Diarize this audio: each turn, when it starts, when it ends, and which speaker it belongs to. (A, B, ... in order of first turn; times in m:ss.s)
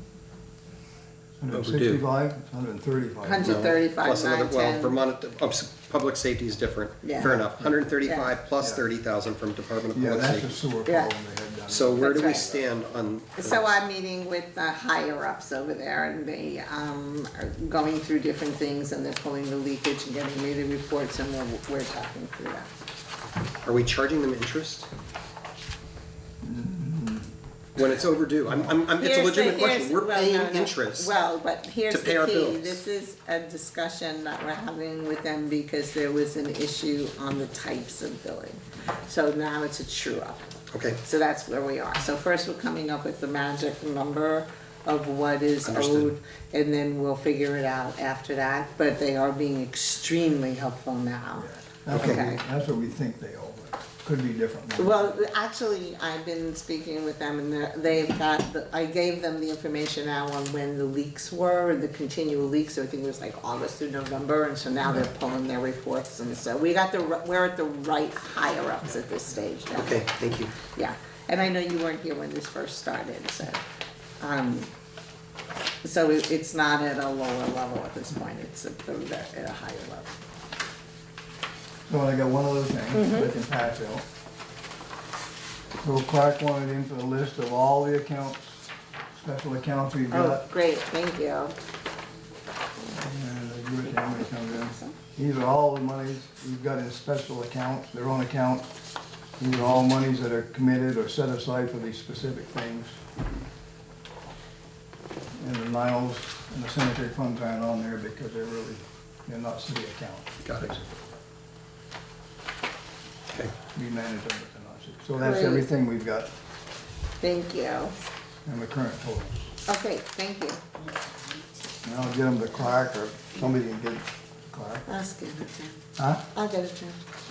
0:01.4-0:03.8 A
0:01.5-0:02.0 B
0:03.2-0:05.0 C
0:03.4-0:10.5 B
0:07.0-0:07.4 C
0:08.0-0:08.3 C
0:09.9-0:12.6 A
0:10.8-0:11.1 C
0:11.7-0:13.8 B
0:12.0-0:12.6 C
0:13.4-0:22.7 C
0:23.6-0:24.9 B
0:26.4-0:27.3 A
0:27.8-0:31.1 B
0:28.5-0:28.8 A
0:29.0-0:40.4 C
0:31.9-0:32.8 B
0:40.7-0:41.0 B
0:41.0-0:52.4 C
0:45.6-0:46.1 B
0:51.4-0:55.2 A
0:51.9-0:52.4 B
0:54.8-1:10.0 C
1:09.7-1:10.5 B
1:10.6-1:13.6 C
1:14.2-1:14.7 C
1:15.8-1:20.1 C
1:21.9-1:24.0 A
1:22.9-1:23.3 C
1:25.8-1:30.5 A
1:30.1-1:31.5 C
1:32.9-1:38.7 A
1:34.1-1:35.0 C
1:39.4-1:43.0 A
1:45.4-1:51.0 A
1:50.4-1:50.7 B
1:53.7-1:56.3 A
1:55.2-1:55.6 C
1:57.2-1:57.9 C
1:58.4-1:59.5 A
1:59.6-2:00.6 C
2:01.8-2:04.8 A
2:04.8-2:07.0 C
2:06.0-2:06.2 A